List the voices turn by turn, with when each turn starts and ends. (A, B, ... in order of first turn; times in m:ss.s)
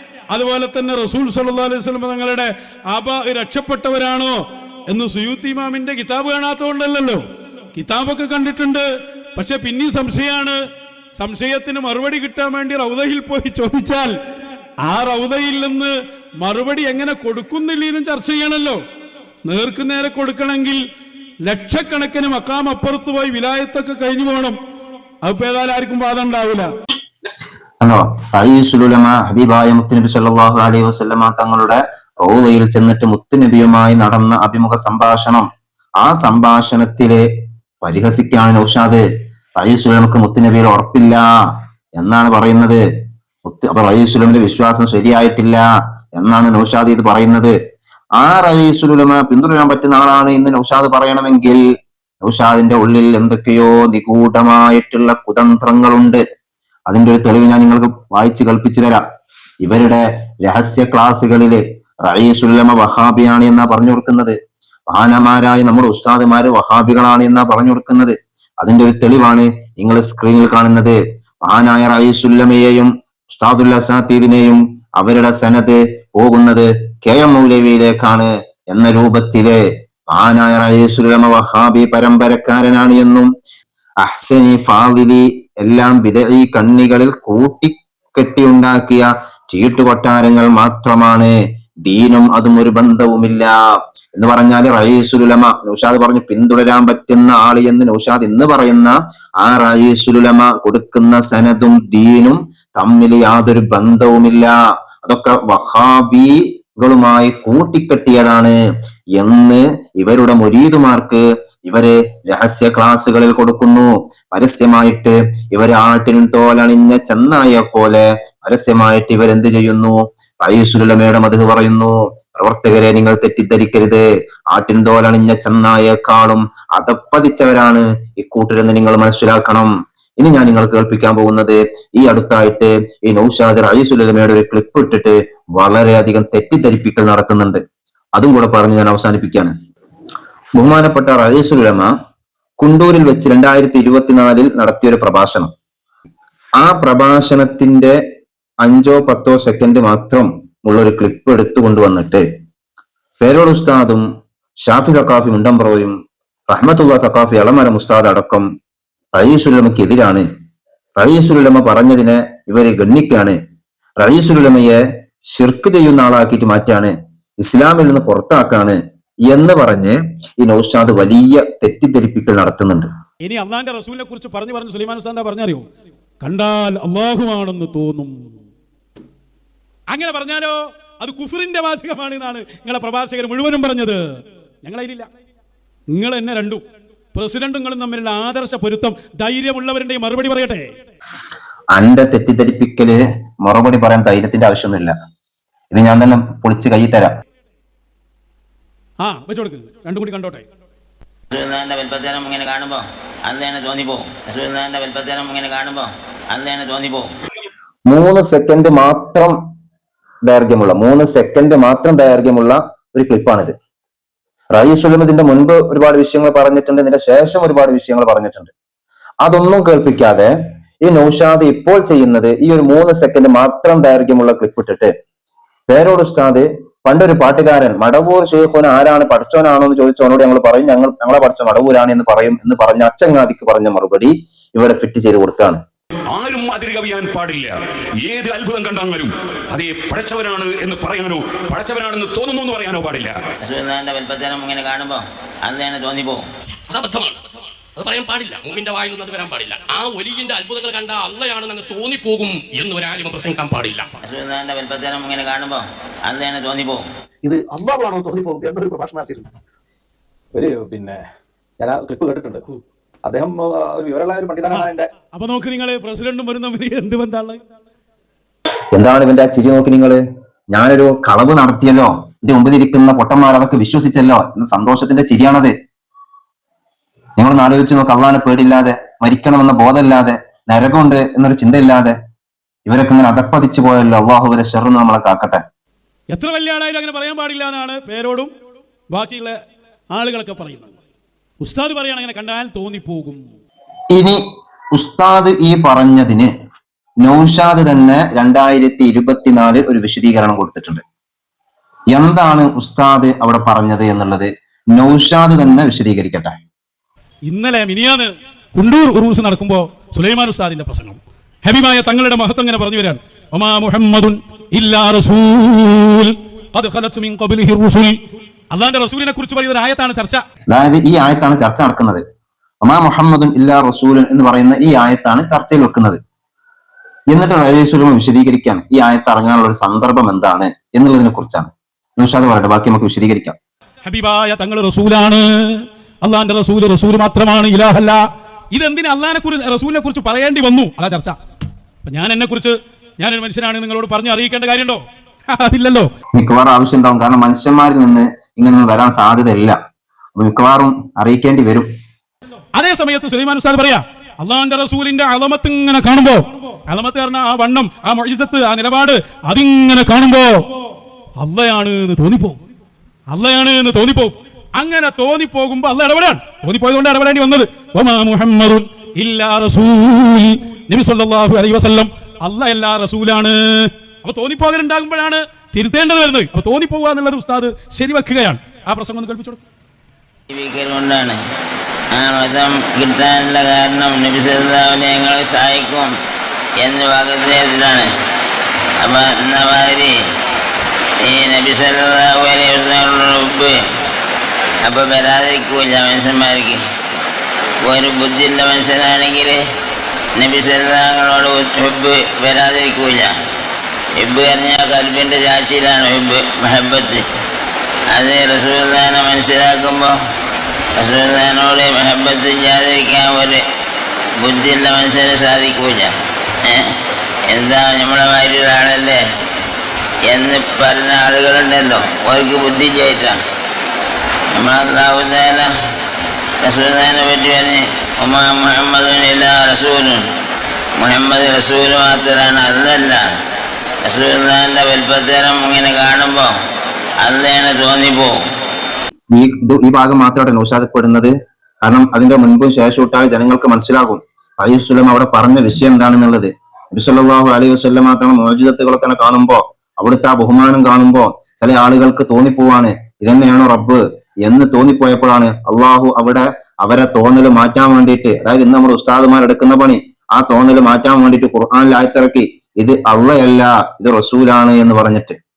0:00.3-0:04.4 A
0:04.9-0:07.2 A
0:07.8-0:08.8 A
0:09.4-0:10.6 A
0:11.2-0:14.1 A
0:14.9-0:18.8 A
0:19.5-0:20.8 A
0:21.4-0:24.6 A
0:25.2-0:26.7 A
0:27.8-0:35.5 B
0:36.0-0:37.3 B
0:37.8-0:42.8 B
0:43.4-0:45.6 B
0:46.2-0:47.5 B
0:48.2-0:51.6 B
0:52.2-0:56.2 B
0:56.9-0:59.0 B
0:59.6-1:04.4 B
1:04.9-1:23.3 B
1:24.0-1:33.5 B
1:34.1-1:48.6 B
1:49.2-2:17.6 B
2:18.2-2:19.5 B
2:20.6-2:21.9 B
2:22.6-2:25.5 B
2:26.6-2:28.0 B
2:28.6-2:32.2 B
2:33.2-2:34.0 B
2:34.6-2:36.0 B
2:36.5-2:38.4 B
2:39.1-2:40.2 B
2:41.0-2:43.4 B
2:44.0-2:44.8 B
2:45.3-2:52.9 B
2:53.2-2:55.6 A
2:56.2-2:58.1 A
2:59.9-3:04.0 A
3:04.6-3:05.1 A
3:05.9-3:06.6 A
3:07.1-3:10.7 A
3:11.7-3:14.9 B
3:15.7-3:17.1 B
3:19.0-3:20.4 A
3:21.3-3:27.1 C
3:27.9-3:29.4 B
3:30.2-3:33.5 B
3:34.5-3:38.5 B
3:39.2-3:40.3 B
3:40.8-3:44.9 B
3:45.7-3:55.6 B
3:56.1-4:03.2 D
4:03.4-4:06.2 C
4:06.7-4:13.9 E
4:14.0-4:16.8 C
4:17.2-4:19.4 F
4:20.3-4:21.0 F
4:21.6-4:22.4 F
4:23.0-4:24.9 F
4:24.5-4:27.4 A
4:28.7-4:30.0 B
4:30.5-4:35.5 B
4:37.2-4:42.0 B
4:42.6-4:45.4 B
4:46.1-4:48.3 A
4:48.9-4:49.4 A
4:49.9-4:50.7 A
4:51.4-4:53.2 A
4:53.9-4:54.2 B
4:54.7-4:56.3 B
4:57.0-5:00.8 B
5:01.9-5:06.3 B
5:07.3-5:17.9 A
5:18.5-5:20.2 A
5:20.5-5:22.0 B
5:22.6-5:26.0 B
5:27.1-5:33.4 B
5:33.8-5:38.0 A
5:38.5-5:41.2 A
5:41.8-5:44.8 A
5:45.3-5:45.9 A
5:46.1-5:49.6 B
5:50.2-5:51.7 B
5:52.6-6:00.4 A
6:01.2-6:02.4 A
6:03.1-6:19.4 A
6:20.3-6:21.2 C
6:21.9-6:25.9 C
6:26.6-6:27.9 C
6:28.8-6:30.0 C
6:31.0-6:33.6 C
6:34.6-6:36.6 C
6:37.6-6:39.4 C
6:40.2-6:43.1 C
6:44.0-6:47.0 C
6:47.9-6:49.9 C
6:50.8-6:53.4 C
6:54.2-6:55.9 C
6:56.4-6:56.7 C
6:57.3-6:59.0 C
7:00.0-7:03.2 C
7:04.3-7:05.5 C
7:06.4-7:10.0 C
7:10.8-7:13.0 C
7:13.8-7:16.3 C
7:17.0-7:18.2 C
7:19.1-7:45.2 B